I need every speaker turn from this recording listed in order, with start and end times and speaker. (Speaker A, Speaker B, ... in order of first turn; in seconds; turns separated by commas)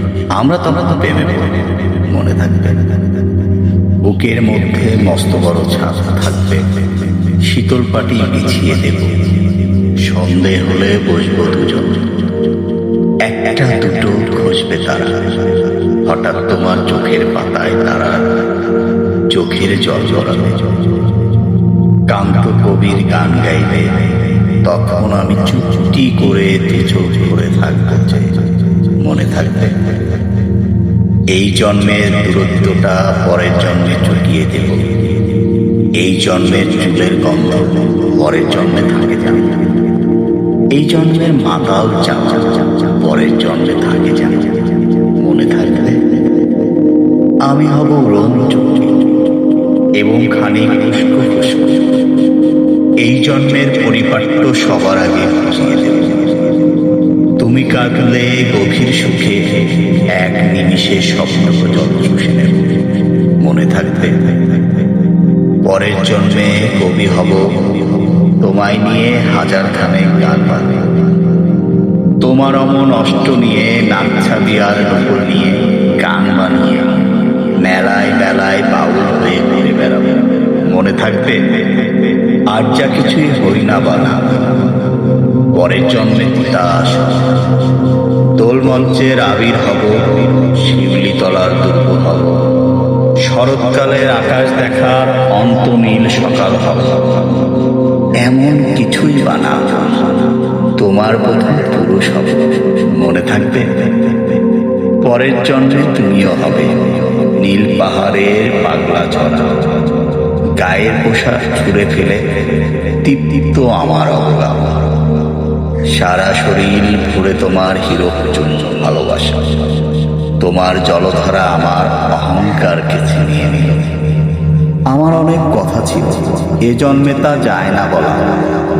Speaker A: 0.3-2.9, Speaker A: 4.0-6.8, Speaker A: 7.4-9.3, Speaker A: 10.0-12.0, Speaker A: 13.2-15.3, Speaker A: 16.0-18.4, Speaker A: 19.3-20.8, Speaker A: 22.1-29.8, Speaker A: 31.3-35.0, Speaker A: 35.9-39.7, Speaker A: 40.7-46.0, Speaker A: 47.5-48.9, Speaker A: 50.0-51.9, Speaker A: 53.0-56.2, Speaker A: 57.4-64.4, Speaker A: 65.6-71.0, Speaker A: 72.2-77.0, Speaker A: 77.6-82.0, Speaker A: 82.5-84.4, Speaker A: 85.5-87.3, Speaker A: 88.4-92.5, Speaker A: 93.2-97.0, Speaker A: 98.2-100.2, Speaker A: 100.7-103.9, Speaker A: 105.0-109.7, Speaker A: 110.5-114.9, Speaker A: 115.9-119.5, Speaker A: 120.4-124.0, Speaker A: 124.9-128.5